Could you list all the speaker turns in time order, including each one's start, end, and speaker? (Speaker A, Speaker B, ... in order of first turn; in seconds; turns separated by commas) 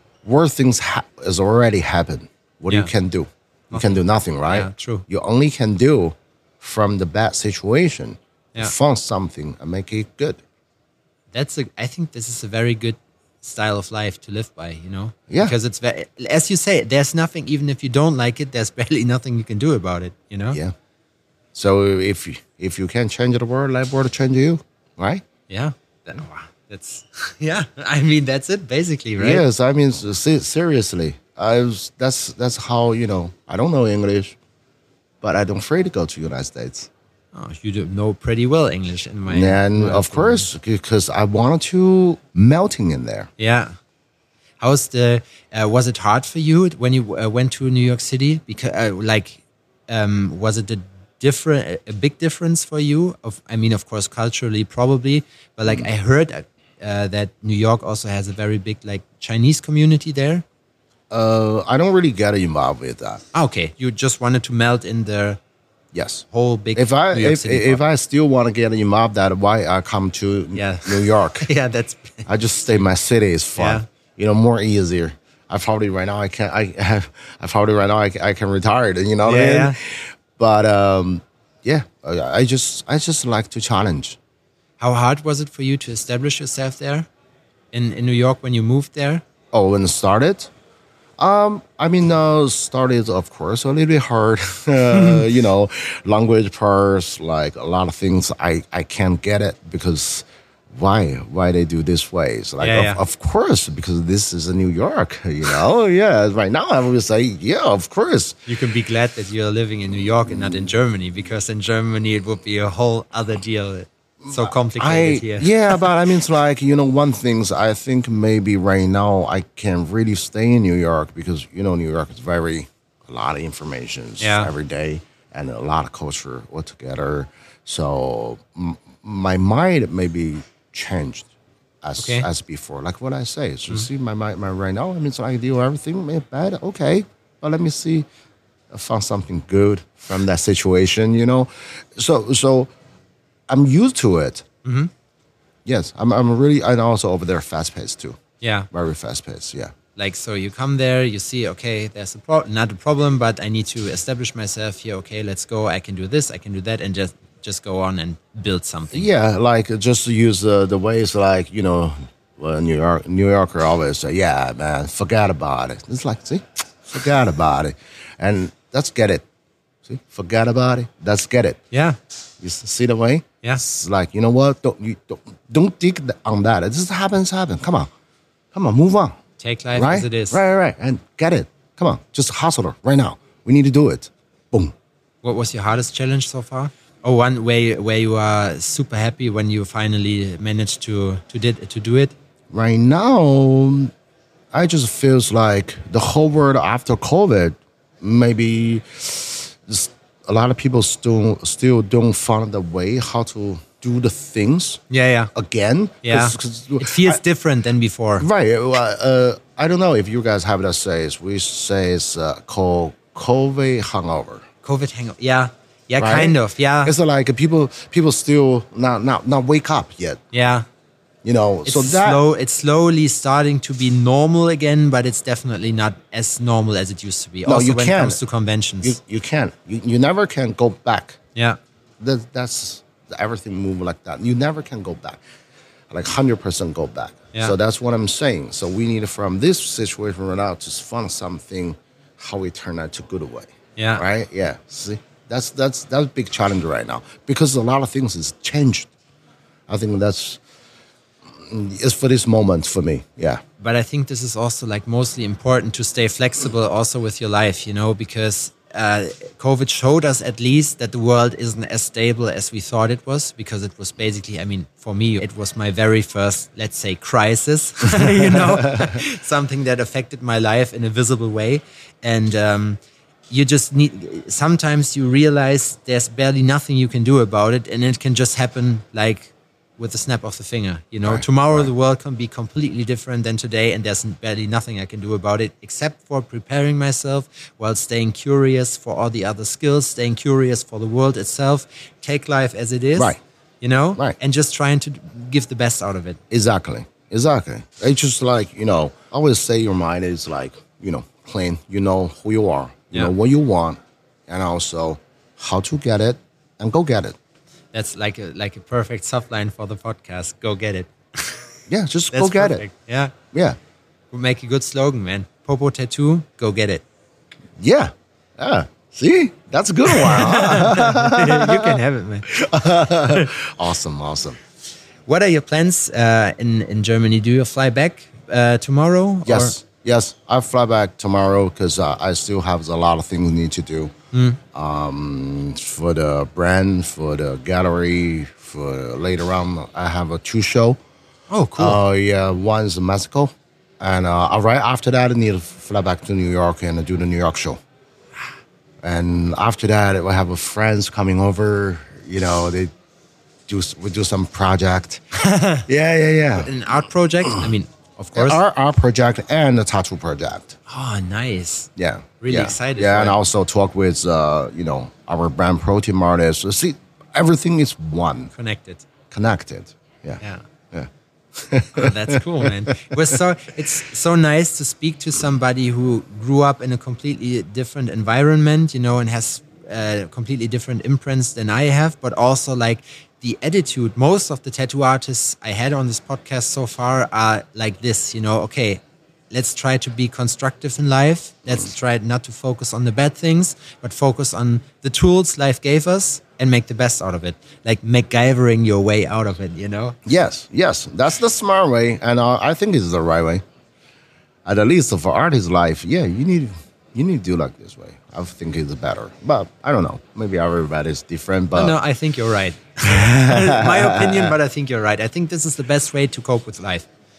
Speaker A: 0.2-10.4, Speaker B: 4.5-5.0, Speaker B: 11.3-20.6, Speaker A: 15.3-15.6, Speaker A: 21.5-25.2, Speaker B: 25.5-29.4, Speaker A: 29.2-34.4, Speaker A: 35.2-36.9, Speaker B: 37.3-40.5, Speaker A: 39.3-43.3, Speaker B: 43.4-43.7, Speaker B: 44.6-60.4, Speaker A: 61.1-63.2, Speaker B: 63.3-65.4, Speaker A: 65.9-71.5, Speaker B: 66.3-67.8, Speaker B: 70.5-72.3, Speaker A: 72.3-84.2, Speaker B: 73.6-73.8, Speaker B: 79.2-79.8, Speaker B: 84.8-87.1, Speaker B: 87.7-89.2, Speaker A: 89.5-90.5, Speaker A: 91.2-108.4, Speaker B: 94.9-95.2, Speaker B: 102.6-103.0, Speaker B: 108.5-115.9, Speaker A: 114.2-131.3, Speaker B: 124.2-124.5, Speaker A: 131.8-138.1, Speaker B: 132.0-132.3, Speaker A: 138.7-142.7, Speaker A: 143.5-144.5, Speaker B: 144.6-144.9, Speaker A: 145.7-148.2, Speaker B: 148.4-148.7, Speaker A: 148.7-149.7, Speaker B: 150.0-159.1, Speaker A: 158.9-169.2, Speaker A: 169.8-171.6, Speaker B: 171.7-172.0, Speaker A: 172.4-177.9, Speaker A: 178.5-179.2, Speaker B: 179.4-180.4, Speaker A: 179.8-184.7, Speaker B: 185.2-192.2, Speaker A: 192.5-193.9, Speaker A: 194.5-204.8, Speaker B: 204.9-205.3, Speaker A: 205.3-207.2, Speaker B: 206.0-208.3, Speaker A: 208.2-214.5, Speaker B: 214.6-216.9, Speaker A: 216.0-220.2, Speaker B: 220.3-220.7, Speaker A: 221.2-222.2, Speaker B: 221.7-229.0, Speaker A: 227.4-228.2, Speaker A: 228.8-231.2, Speaker A: 232.0-235.2, Speaker A: 235.9-248.9, Speaker B: 243.8-244.0, Speaker A: 249.7-250.4, Speaker A: 251.3-253.4, Speaker B: 253.6-296.2, Speaker A: 267.9-269.0, Speaker A: 281.0-281.7, Speaker A: 296.3-307.2, Speaker B: 307.7-311.4, Speaker A: 311.7-312.7, Speaker B: 312.1-313.1, Speaker A: 313.3-313.6, Speaker B: 314.1-316.8, Speaker A: 317.6-324.4, Speaker B: 319.9-322.4, Speaker B: 325.1-329.6, Speaker A: 329.2-333.9, Speaker B: 334.1-334.4, Speaker A: 334.5-340.8, Speaker B: 341.3-341.8, Speaker A: 341.6-347.6, Speaker A: 348.8-352.7, Speaker A: 353.5-355.0, Speaker B: 355.1-355.7, Speaker A: 355.7-356.5, Speaker B: 356.4-358.4, Speaker A: 358.1-360.6, Speaker B: 360.7-361.7, Speaker A: 361.8-368.3, Speaker B: 362.2-363.2, Speaker B: 368.3-368.9, Speaker A: 369.1-372.9, Speaker B: 371.7-400.0, Speaker A: 400.1-403.4, Speaker A: 404.4-411.8, Speaker B: 411.6-416.9, Speaker A: 412.8-414.4